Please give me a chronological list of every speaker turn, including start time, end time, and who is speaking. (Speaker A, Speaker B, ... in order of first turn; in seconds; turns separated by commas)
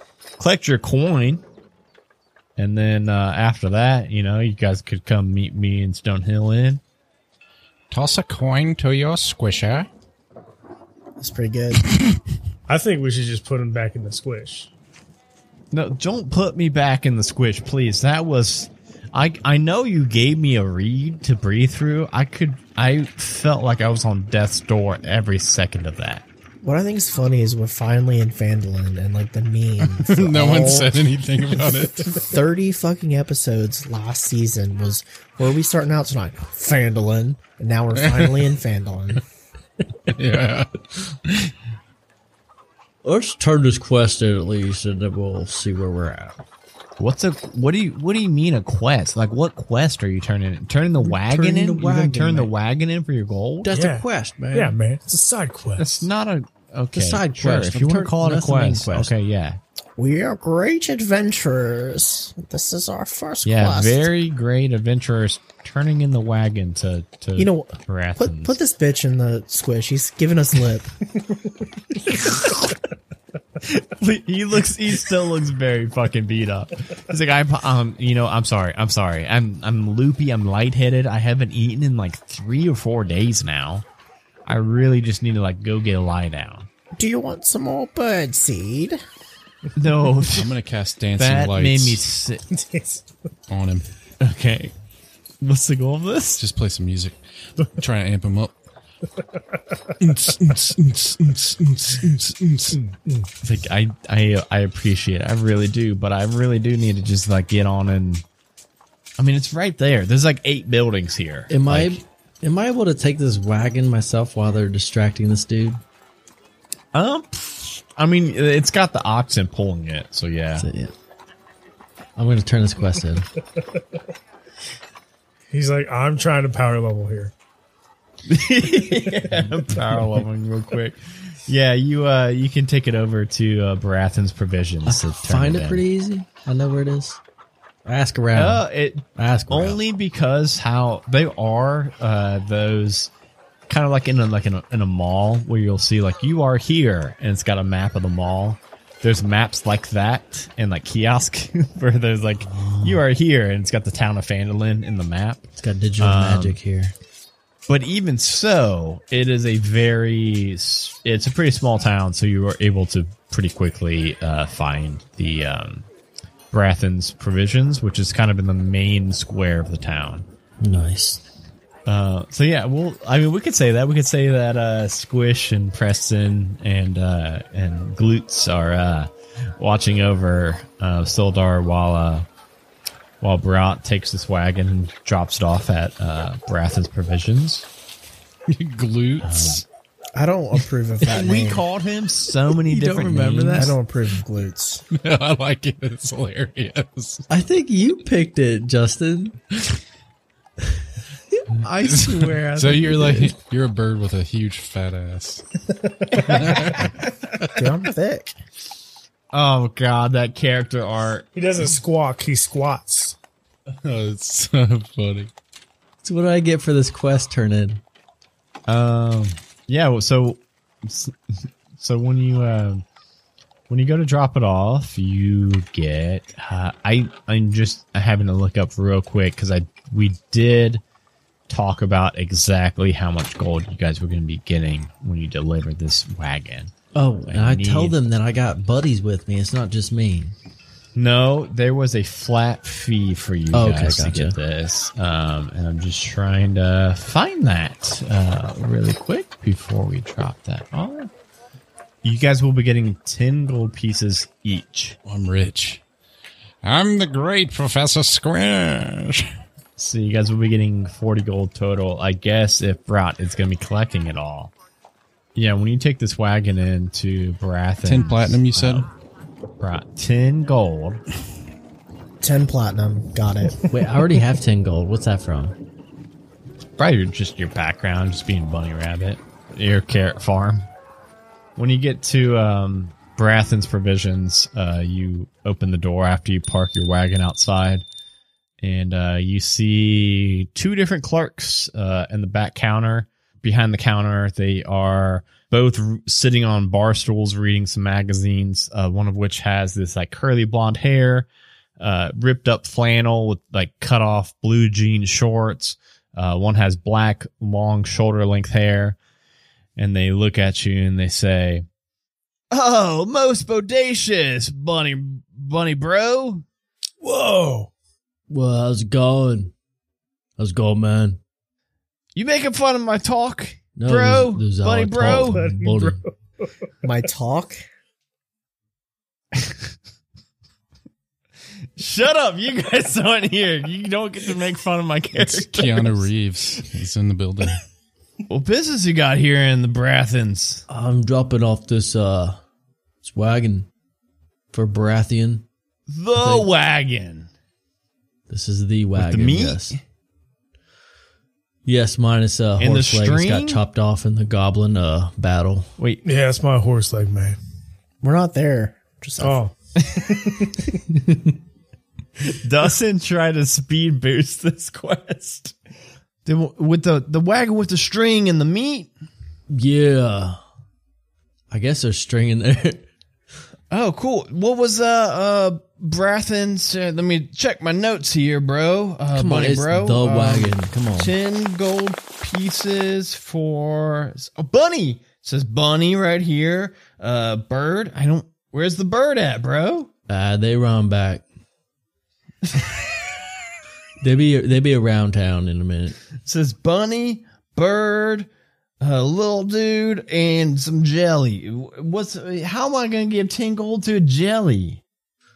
Speaker A: 0.4-1.4, Speaker A: 2.6-6.8, Speaker B: 7.9-9.9, Speaker C: 11.2-11.8, Speaker D: 12.7-14.7, Speaker A: 15.7-26.2, Speaker C: 26.6-39.2, Speaker B: 29.9-32.3, Speaker B: 38.0-38.3, Speaker B: 40.0-41.5, Speaker E: 43.0-46.4, Speaker A: 47.0-53.7, Speaker E: 51.0-52.5, Speaker E: 53.6-54.7, Speaker D: 53.7-56.1, Speaker A: 55.8-59.6, Speaker E: 56.9-59.1, Speaker C: 60.0-64.1, Speaker A: 63.4-68.6, Speaker C: 67.3-70.9, Speaker A: 73.6-83.8, Speaker A: 84.5-86.7, Speaker C: 87.0-89.0, Speaker A: 89.8-90.5, Speaker B: 90.3-92.0, Speaker A: 91.2-92.4, Speaker D: 92.5-93.0, Speaker B: 93.5-93.9, Speaker A: 94.2-94.7, Speaker A: 95.4-96.4, Speaker B: 96.4-98.5, Speaker B: 100.0-102.8, Speaker D: 102.8-103.3, Speaker A: 103.4-108.2, Speaker A: 109.2-112.0, Speaker E: 111.5-115.8, Speaker A: 116.9-120.7, Speaker E: 120.6-120.9, Speaker E: 122.2-123.3, Speaker D: 125.5-127.3, Speaker A: 128.3-135.8, Speaker E: 134.8-137.2, Speaker E: 137.8-138.6, Speaker A: 138.3-143.1, Speaker E: 139.2-139.8, Speaker A: 143.7-155.5, Speaker E: 152.4-153.0, Speaker E: 155.6-156.9, Speaker A: 156.0-156.6, Speaker A: 157.7-165.8, Speaker A: 166.5-170.3, Speaker E: 170.6-171.2, Speaker A: 171.8-182.3, Speaker A: 183.2-187.7, Speaker B: 188.5-189.6, Speaker A: 189.2-189.6, Speaker C: 190.1-191.6, Speaker A: 191.1-193.7, Speaker E: 192.5-193.7, Speaker C: 193.5-194.8, Speaker B: 194.9-197.2, Speaker E: 197.3-199.4, Speaker E: 201.3-203.3, Speaker B: 201.8-205.4, Speaker D: 205.8-206.4, Speaker B: 206.1-207.6, Speaker C: 207.5-208.3, Speaker A: 209.3-211.3, Speaker D: 211.3-213.2, Speaker B: 213.7-215.3, Speaker E: 216.0-217.8, Speaker A: 218.7-221.2, Speaker A: 221.8-222.8, Speaker A: 223.7-230.8, Speaker A: 231.5-236.7, Speaker E: 236.9-240.3, Speaker A: 237.3-237.9, Speaker A: 240.9-251.1, Speaker E: 243.5-244.3, Speaker A: 252.0-255.0, Speaker B: 255.0-255.8, Speaker B: 256.6-259.3, Speaker A: 259.8-264.5, Speaker A: 265.3-268.9, Speaker B: 267.8-268.9, Speaker A: 269.6-271.0, Speaker C: 272.2-273.6, Speaker E: 273.7-275.6, Speaker A: 276.8-280.7, Speaker A: 281.6-287.9, Speaker A: 288.6-301.3, Speaker A: 301.8-309.0, Speaker A: 309.8-311.6, Speaker A: 312.5-316.4, Speaker D: 317.0-317.7, Speaker E: 318.3-319.5, Speaker E: 320.4-321.2, Speaker A: 322.1-325.4, Speaker E: 323.8-326.0, Speaker D: 325.2-326.1, Speaker C: 326.8-327.6, Speaker A: 331.8-336.1, Speaker B: 335.2-337.6, Speaker A: 338.3-340.6, Speaker E: 340.7-342.4, Speaker E: 343.0-343.7, Speaker E: 344.5-345.4, Speaker A: 345.9-347.3, Speaker E: 346.1-346.5, Speaker E: 348.3-349.7, Speaker A: 348.9-349.8, Speaker E: 351.6-355.7, Speaker A: 352.6-353.6, Speaker A: 355.8-356.0, Speaker D: 356.0-357.4, Speaker C: 358.0-359.4, Speaker D: 359.2-360.7, Speaker E: 361.0-361.3, Speaker A: 362.3-365.5, Speaker A: 366.2-368.9, Speaker E: 369.5-370.4, Speaker E: 371.5-372.9, Speaker A: 373.7-389.9, Speaker E: 379.1-381.1, Speaker E: 390.1-391.2, Speaker E: 394.0-396.0, Speaker A: 396.2-398.3, Speaker A: 398.8-404.8